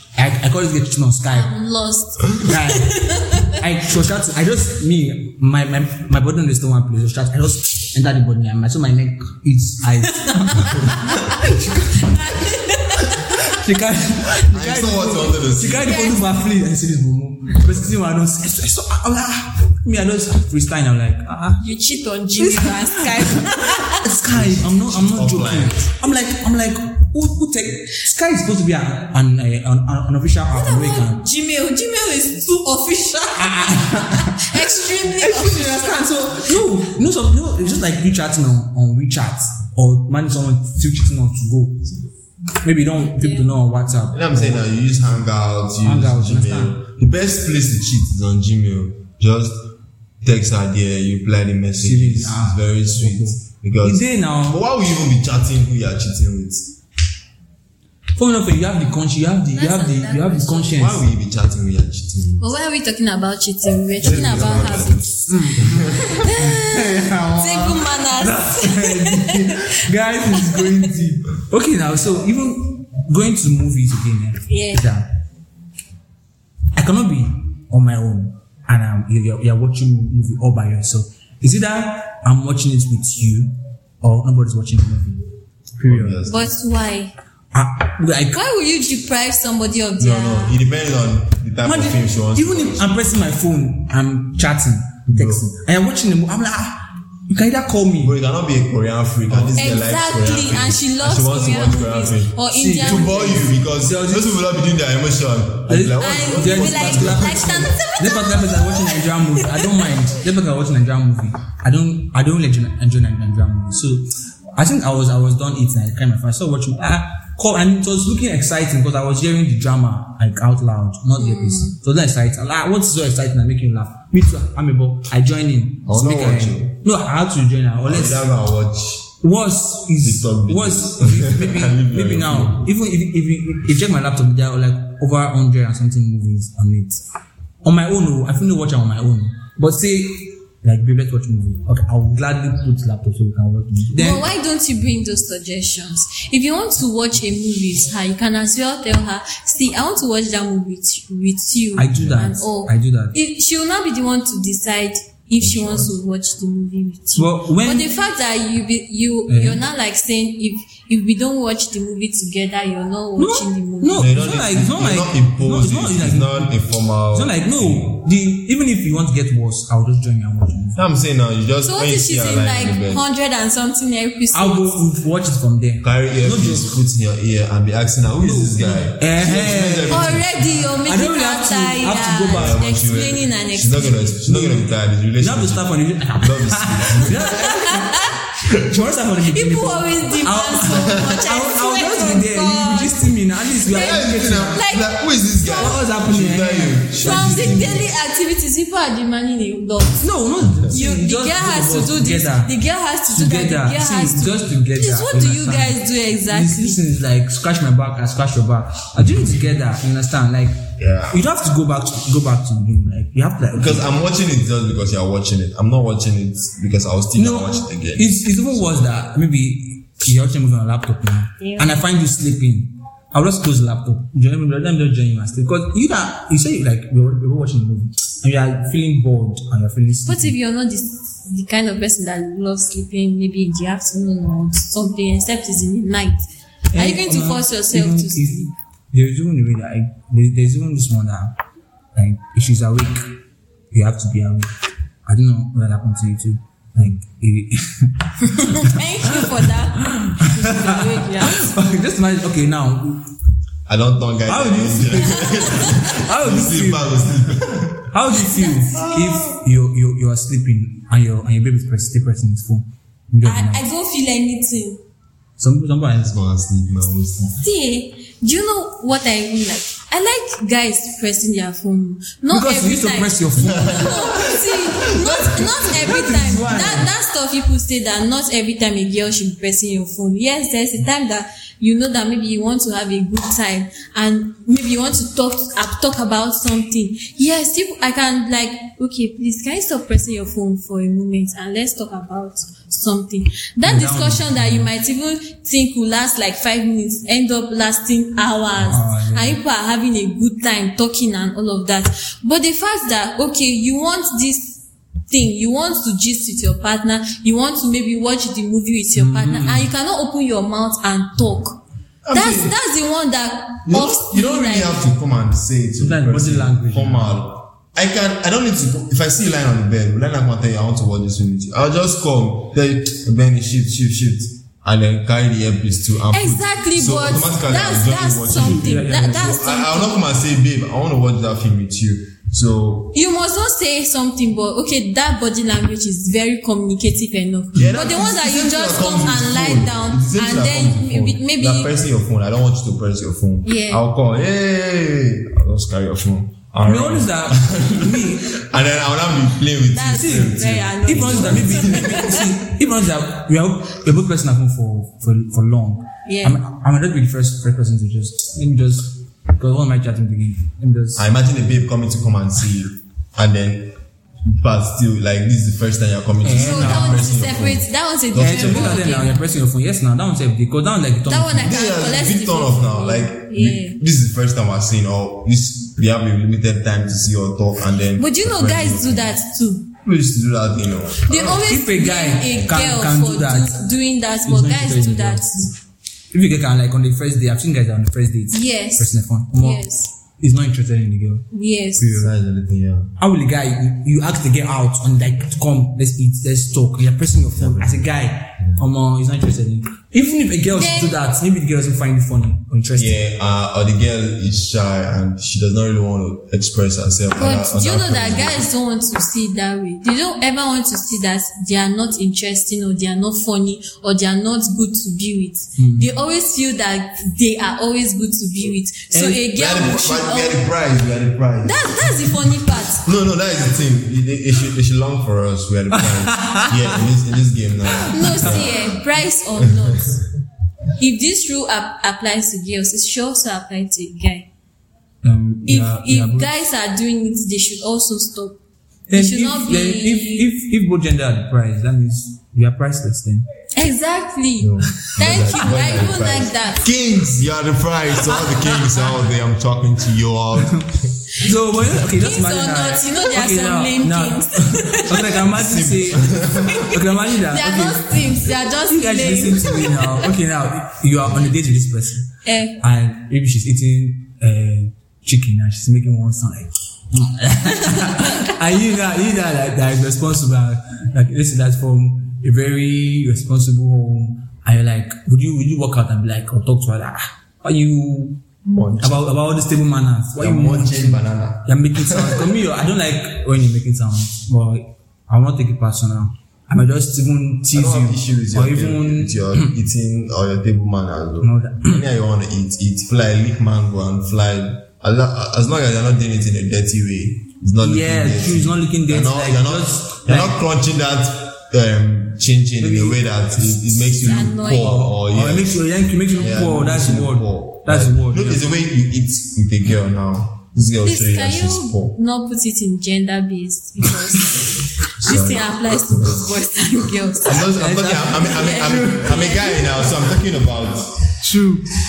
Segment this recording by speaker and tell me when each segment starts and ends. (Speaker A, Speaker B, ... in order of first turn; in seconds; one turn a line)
Speaker A: 0.2-1.5
Speaker B: 1.3-3.6
Speaker A: 2.4-12.4
Speaker B: 10.2-13.4
Speaker A: 13.0-21.6
Speaker C: 14.5-16.1
Speaker B: 15.8-16.3
Speaker B: 21.6-24.0
Speaker A: 22.4-31.2
Speaker C: 24.3-25.8
Speaker B: 30.5-36.6
Speaker A: 33.3-41.9
Speaker A: 42.6-44.6
Speaker B: 43.2-43.5
Speaker C: 44.1-49.7
Speaker A: 45.8-46.8
Speaker C: 50.2-56.8
Speaker A: 51.8-54.6
Speaker A: 58.2-61.0
Speaker B: 59.5-60.9
Speaker C: 60.8-62.5
Speaker B: 62.4-69.7
Speaker C: 64.0-66.2
Speaker A: 64.3-64.7
Speaker A: 65.3-75.1
Speaker B: 70.3-70.8
Speaker B: 74.5-74.9
Speaker A: 76.8-85.2
Speaker A: 85.8-86.2
Speaker C: 85.8-86.5
Speaker B: 86.2-87.1
Speaker A: 87.5-88.4
Speaker B: 88.3-90.6
Speaker C: 90.0-92.9
Speaker A: 91.7-98.2
Speaker C: 95.1-95.5
Speaker C: 98.0-107.7
Speaker A: 99.3-99.6
Speaker B: 99.6-103.5
Speaker A: 102.5-104.4
Speaker A: 105.7-128.3
Speaker B: 106.0-110.0
Speaker B: 121.2-121.8
Speaker C: 125.8-126.7
Speaker C: 127.9-129.1
Speaker A: 129.2-137.0
Speaker C: 130.0-132.7
Speaker A: 137.6-144.3
Speaker B: 143.9-164.1
Speaker A: 151.8-153.2
Speaker C: 151.9-152.3
Speaker C: 155.4-155.9
Speaker A: 157.2-157.9
Speaker A: 159.3-159.6
Speaker A: 163.2-166.6
Speaker C: 163.9-168.0
Speaker A: 167.1-170.8
Speaker C: 170.8-173.0
Speaker B: 171.6-174.8
Speaker A: 174.3-176.8
Speaker C: 175.8-180.3
Speaker A: 178.2-182.6
Speaker B: 179.9-184.3
Speaker C: 182.3-187.3
Speaker A: 184.3-184.7
Speaker A: 185.2-194.6
Speaker B: 187.3-188.2
Speaker B: 189.3-195.8
Speaker C: 190.8-191.2
Speaker C: 193.7-197.9
Speaker A: 195.6-197.9
Speaker B: 197.0-200.1
Speaker A: 200.0-202.5
Speaker B: 200.7-206.8
Speaker A: 203.1-213.9
Speaker C: 210.8-211.2
Speaker C: 213.6-218.9
Speaker A: 217.2-230.4
Speaker B: 221.4-221.8
Speaker B: 230.1-238.5
Speaker A: 236.7-241.4
Speaker A: 241.9-244.5
Speaker A: 245.1-253.1
Speaker B: 248.6-251.5
Speaker C: 253.7-257.9
Speaker A: 254.3-257.2
Speaker B: 255.2-255.6
Speaker A: 257.9-263.6
Speaker C: 258.7-259.4
Speaker B: 263.2-264.8
Speaker A: 265.4-266.2
Speaker C: 266.0-267.4
Speaker B: 267.4-311.6
Speaker A: 272.3-276.9
Speaker C: 273.4-275.6
Speaker A: 293.6-294.7
Speaker A: 298.6-299.4
Speaker A: 309.0-309.7
Speaker C: 312.0-312.6
Speaker B: 312.1-314.9
Speaker C: 313.7-333.0
Speaker A: 315.8-317.2
Speaker B: 326.1-330.0
Speaker A: 328.3-329.4
Speaker B: 332.9-341.7
Speaker C: 337.6-352.2
Speaker B: 343.4-343.9
Speaker A: 346.6-348.3
Speaker B: 349.7-352.3
Speaker A: 350.0-361.1
Speaker B: 356.1-356.4
Speaker C: 361.0-368.9
Speaker A: 366.2-367.1
Speaker B: 366.3-369.2
Speaker A: 368.2-371.5
Speaker B: 371.1-373.8
Speaker C: 371.3-379.1
Speaker B: 378.0-379.7
Speaker C: 379.8-381.5
Speaker B: 381.1-385.5
Speaker A: 381.4-383.6
Speaker A: 384.2-385.5
Speaker A: 386.1-389.7
Speaker B: 388.3-389.9
Speaker A: 390.2-392.1
Speaker B: 391.3-392.0
Speaker C: 392.0-392.9
Speaker A: 393.0-403.0
Speaker C: 397.3-398.6
Speaker B: 400.5-401.0
Speaker C: 402.8-408.5
Speaker B: 407.1-420.5
Speaker A: 415.6-415.9
Speaker A: 418.9-419.2
Speaker C: 419.3-428.8
Speaker B: 421.4-422.9
Speaker A: 425.7-426.8
Speaker A: 427.7-428.4
Speaker B: 427.9-430.1
Speaker C: 429.4-430.0
Speaker B: 430.8-434.3
Speaker A: 435.0-436.3
Speaker B: 435.5-438.4
Speaker A: 438.9-443.3
Speaker B: 438.9-440.3
Speaker B: 443.6-446.7
Speaker C: 444.4-450.9
Speaker A: 448.1-448.8
Speaker A: 450.4-458.1
Speaker B: 451.9-455.2
Speaker C: 455.3-456.8
Speaker B: 456.5-460.1
Speaker A: 458.7-462.1
Speaker B: 462.2-462.6
Speaker A: 462.6-478.2
Speaker B: 467.7-468.3
Speaker C: 478.5-479.1
Speaker A: 478.8-489.5
Speaker C: 480.2-482.3
Speaker C: 487.5-512.0
Speaker A: 491.2-491.8
Speaker A: 497.6-500.4
Speaker A: 502.6-508.4
Speaker B: 504.0-504.8
Speaker B: 510.8-517.5
Speaker C: 515.0-516.3
Speaker C: 517.2-521.1
Speaker A: 517.5-519.3
Speaker B: 518.1-520.0
Speaker A: 521.2-521.8